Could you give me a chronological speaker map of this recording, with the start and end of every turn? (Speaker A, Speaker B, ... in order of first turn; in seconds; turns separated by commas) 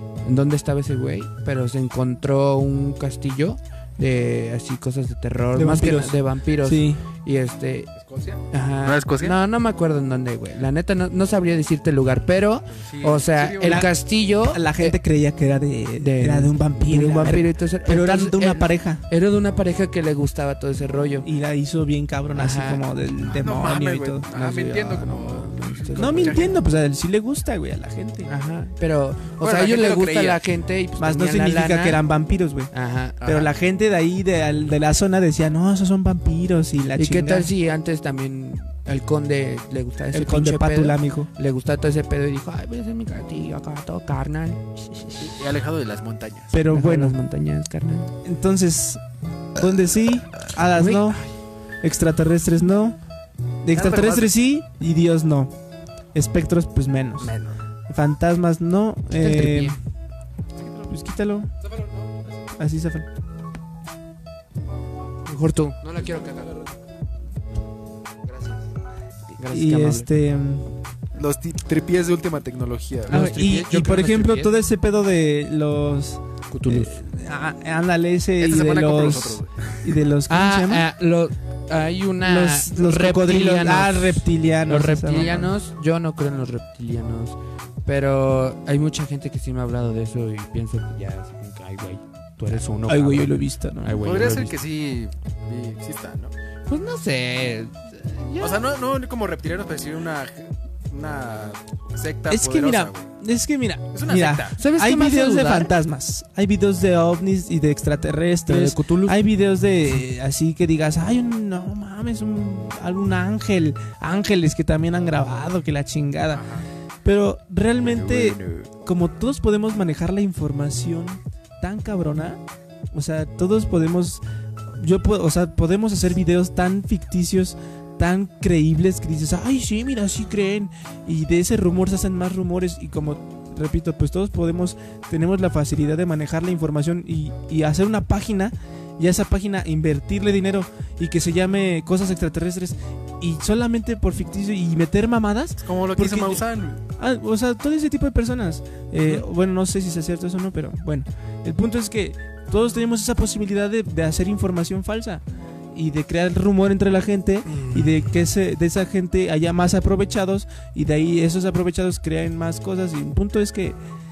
Speaker A: 0.2-7.9, Speaker B: 5.5-7.0, Speaker C: 8.0-9.3, Speaker A: 8.5-15.0, Speaker C: 12.7-13.9, Speaker B: 13.6-13.9, Speaker B: 14.5-19.0, Speaker A: 16.0-21.3, Speaker B: 21.2-24.2, Speaker A: 22.3-22.8, Speaker C: 23.2-26.6, Speaker A: 24.3-26.5, Speaker B: 26.0-28.3, Speaker A: 28.3-32.0, Speaker C: 29.4-30.4, Speaker B: 31.0-37.5, Speaker A: 32.7-33.2, Speaker C: 33.2-33.5, Speaker A: 37.0-45.3, Speaker B: 40.1-41.3, Speaker C: 45.2-46.6, Speaker B: 46.5-47.2, Speaker A: 46.7-48.1, Speaker B: 48.2-49.0, Speaker B: 49.5-51.2, Speaker A: 50.7-51.3, Speaker B: 51.8-53.0, Speaker B: 53.6-55.5, Speaker C: 53.7-54.3, Speaker B: 56.1-57.4, Speaker C: 57.2-57.5, Speaker B: 57.9-59.8, Speaker A: 59.1-59.8, Speaker C: 60.6-60.9, Speaker B: 60.9-61.5, Speaker C: 61.6-62.4, Speaker B: 62.5-63.1, Speaker A: 65.2-66.5, Speaker C: 65.8-66.7, Speaker A: 68.3-68.6, Speaker A: 69.3-70.1, Speaker B: 69.5-70.8, Speaker C: 71.2-73.2, Speaker A: 73.1-74.5, Speaker B: 73.1-80.8, Speaker A: 76.5-77.0, Speaker C: 78.4-80.0, Speaker A: 80.3-94.5, Speaker B: 82.2-85.5, Speaker B: 92.9-94.2, Speaker C: 94.0-96.3, Speaker A: 96.7-98.6, Speaker C: 98.4-103.1, Speaker B: 102.3-116.5, Speaker C: 103.9-104.6, Speaker A: 104.6-105.7, Speaker A: 108.5-109.2, Speaker C: 116.3-116.6, Speaker B: 117.0-124.2, Speaker C: 117.8-118.7, Speaker B: 124.8-163.8, Speaker C: 145.6-146.8